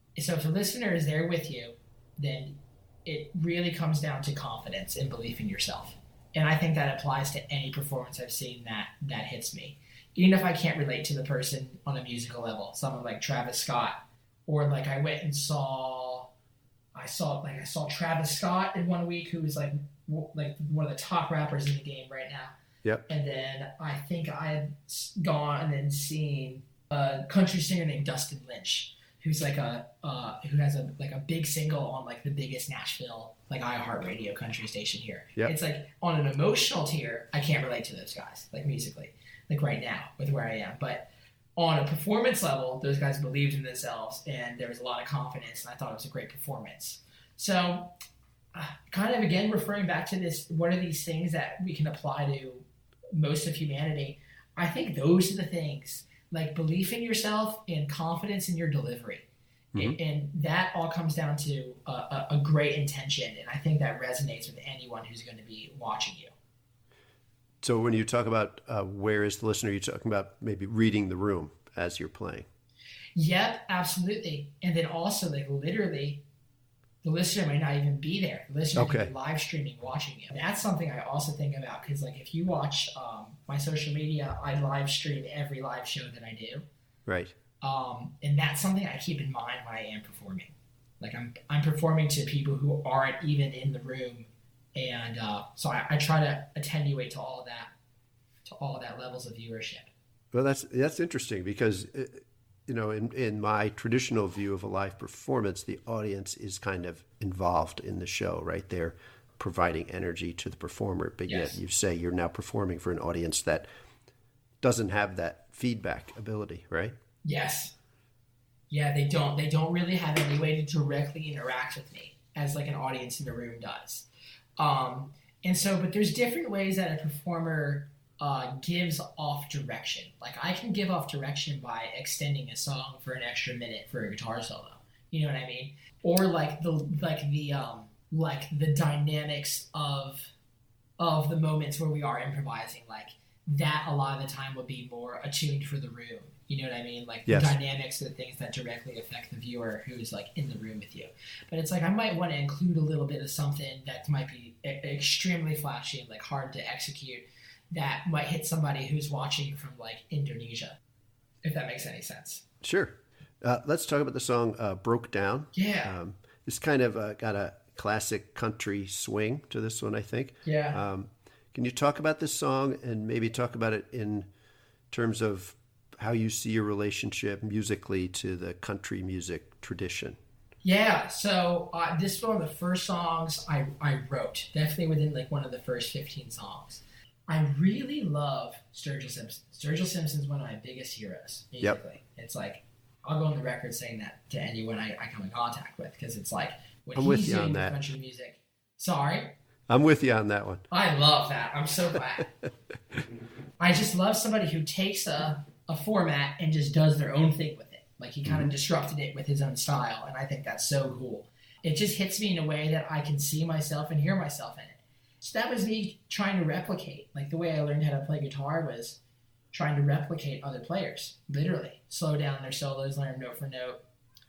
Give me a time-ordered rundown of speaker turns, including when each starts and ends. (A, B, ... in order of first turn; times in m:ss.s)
0:00.2-0:16.3 A
0:17.0-0:22.6 A
0:23.1-0:47.9 A
0:48.5-1:06.3 A
1:07.6-1:12.5 B
1:13.2-1:16.2 A
1:17.0-1:26.6 A
1:18.8-1:19.1 B
1:27.1-1:27.3 B
1:27.6-1:37.7 A
1:38.4-1:39.9 A
1:40.3-1:53.7 B
1:51.3-1:51.6 A
1:54.6-1:57.0 B
1:57.2-1:57.7 A
1:58.7-2:04.1 A
2:04.6-2:20.3 A
2:21.0-2:40.8 A
2:27.3-2:27.6 B
2:41.4-2:42.4 A
2:42.6-2:54.3 B
2:45.5-2:46.0 A
2:50.4-2:50.8 A
2:54.9-3:00.2 B
3:00.6-3:19.4 A
3:17.0-3:17.8 B
3:19.7-3:20.7 B
3:20.7-3:22.3 A
3:23.6-3:39.0 A
3:28.2-3:28.5 B
3:39.5-3:43.8 A